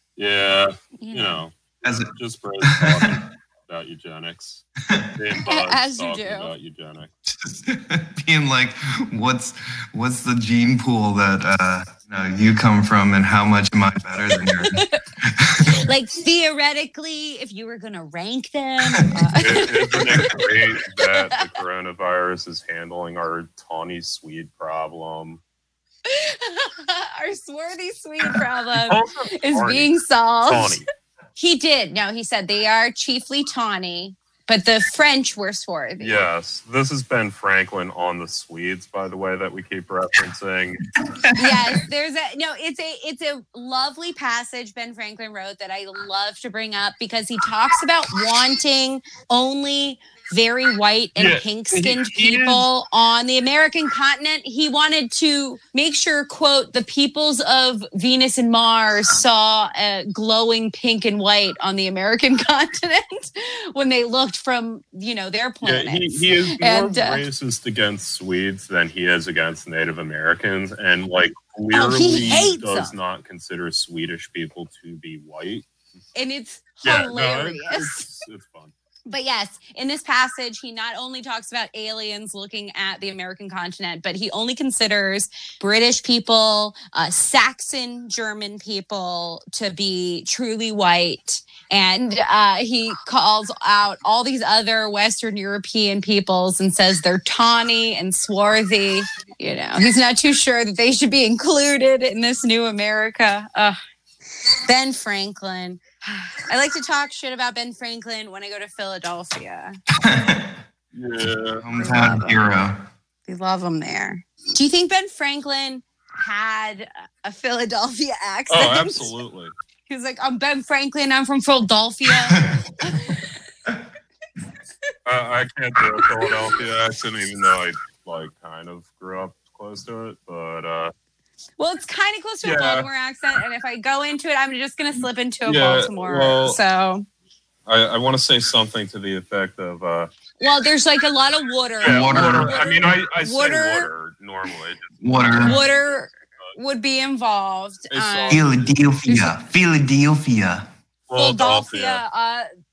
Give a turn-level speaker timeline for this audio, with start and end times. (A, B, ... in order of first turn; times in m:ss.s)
0:00.2-0:01.5 A
0:01.0-0:01.4 B
0:01.8-0:02.1 C
0:02.2-0:07.1 A
0:02.7-0:03.2 C
0:04.9-0:05.1 C
0:05.4-0:06.5 B
0:07.3-0:15.8 C
0:14.3-0:15.0 B
0:15.8-0:20.5 B
0:19.4-0:25.4 A
0:21.0-0:21.4 B
0:26.1-0:30.8 B
0:28.8-0:29.9 A
0:30.4-0:30.9 A
0:31.4-0:36.3 B
0:36.0-0:40.8 A
0:41.0-0:41.3 C
0:41.4-1:07.2 B
0:51.2-0:52.6 A
1:05.6-1:15.7 A
1:11.7-1:12.9 B
1:16.2-1:18.1 B
1:16.8-1:18.7 A
1:19.1-1:43.8 B
1:44.7-1:49.8 B
1:50.0-1:50.6 C
1:50.9-1:52.2 A
1:51.6-1:52.8 C
1:53.3-1:59.1 B
1:58.5-1:59.5 A
1:59.9-2:03.2 B
2:02.3-2:03.1 C
2:05.1-2:10.9 A
2:11.6-2:17.1 B
2:12.4-2:12.9 A
2:15.5-2:16.6 A
2:17.7-2:20.1 A
2:20.4-2:23.9 B
2:21.8-2:23.0 C
2:21.8-2:25.8 A
2:25.0-2:25.6 C
2:25.4-2:28.4 B
2:27.9-2:28.7 A
2:28.3-2:30.7 C
2:31.1-2:32.0 A
2:31.2-2:32.5 B